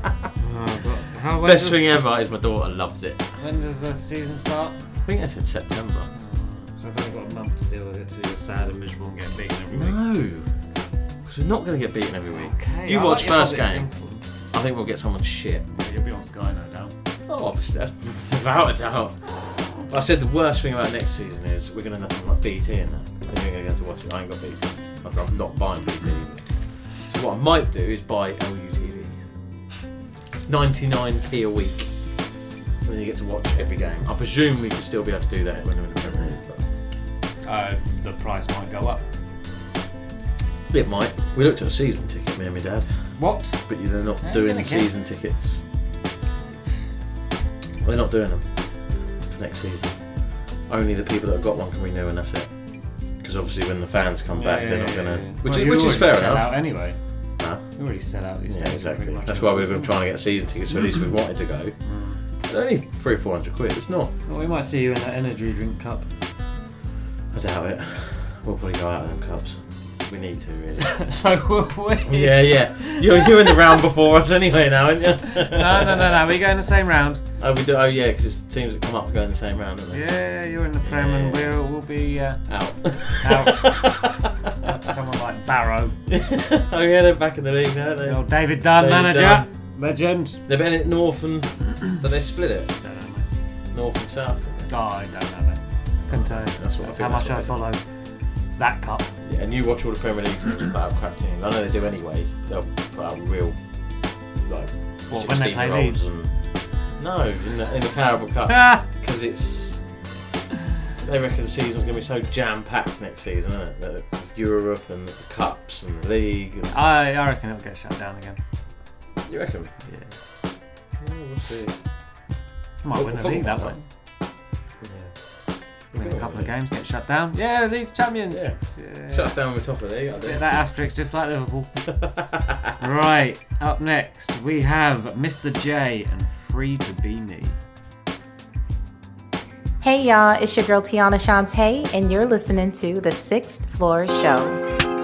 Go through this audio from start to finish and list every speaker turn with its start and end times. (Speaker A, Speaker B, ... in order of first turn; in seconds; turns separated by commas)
Speaker A: 0.4-1.9, Speaker B: 1.4-3.2, Speaker A: 3.4-4.8, Speaker B: 5.0-6.1, Speaker A: 6.1-10.0, Speaker B: 9.7-10.5, Speaker B: 11.2-13.9, Speaker A: 12.3-14.2, Speaker B: 14.5-15.7, Speaker A: 15.7-16.9, Speaker B: 17.3-26.4, Speaker B: 27.0-29.2, Speaker B: 30.5-31.9, Speaker B: 32.8-36.6, Speaker A: 37.5-39.0, Speaker B: 40.7-43.1, Speaker A: 43.2-43.6, Speaker B: 43.6-45.6, Speaker A: 44.2-44.9, Speaker B: 47.8-48.5, Speaker B: 49.3-50.0, Speaker B: 50.7-52.5, Speaker B: 53.2-56.6, Speaker A: 54.3-57.0, Speaker B: 57.4-57.6, Speaker A: 57.8-59.9, Speaker B: 58.5-61.7, Speaker A: 61.9-62.2, Speaker B: 62.5-64.1, Speaker A: 64.3-66.1, Speaker B: 67.3-71.0, Speaker A: 70.8-73.3, Speaker B: 72.0-76.2, Speaker A: 75.5-77.2, Speaker B: 77.4-80.1, Speaker A: 79.9-82.5, Speaker B: 80.8-81.5, Speaker B: 82.5-84.2, Speaker A: 83.2-84.1, Speaker A: 84.7-86.0, Speaker B: 86.1-89.5, Speaker A: 88.0-90.4, Speaker B: 90.5-92.7, Speaker A: 92.8-93.2, Speaker B: 93.7-94.7, Speaker A: 94.7-97.8, Speaker B: 96.1-97.6, Speaker A: 98.6-99.1, Speaker B: 99.2-103.6, Speaker B: 104.5-106.3, Speaker A: 105.1-106.1, Speaker B: 107.0-109.8, Speaker A: 108.5-108.8, Speaker B: 111.0-116.7, Speaker A: 116.7-118.4, Speaker B: 119.3-119.7, Speaker A: 119.8-120.2, Speaker B: 121.0-121.7, Speaker A: 122.8-123.8, Speaker B: 122.9-123.8, Speaker B: 124.8-125.1, Speaker B: 125.9-126.5, Speaker A: 126.0-129.3, Speaker B: 128.3-128.6, Speaker B: 129.1-130.4, Speaker A: 130.2-131.7, Speaker B: 131.9-132.7, Speaker A: 132.8-137.6, Speaker C: 139.8-144.6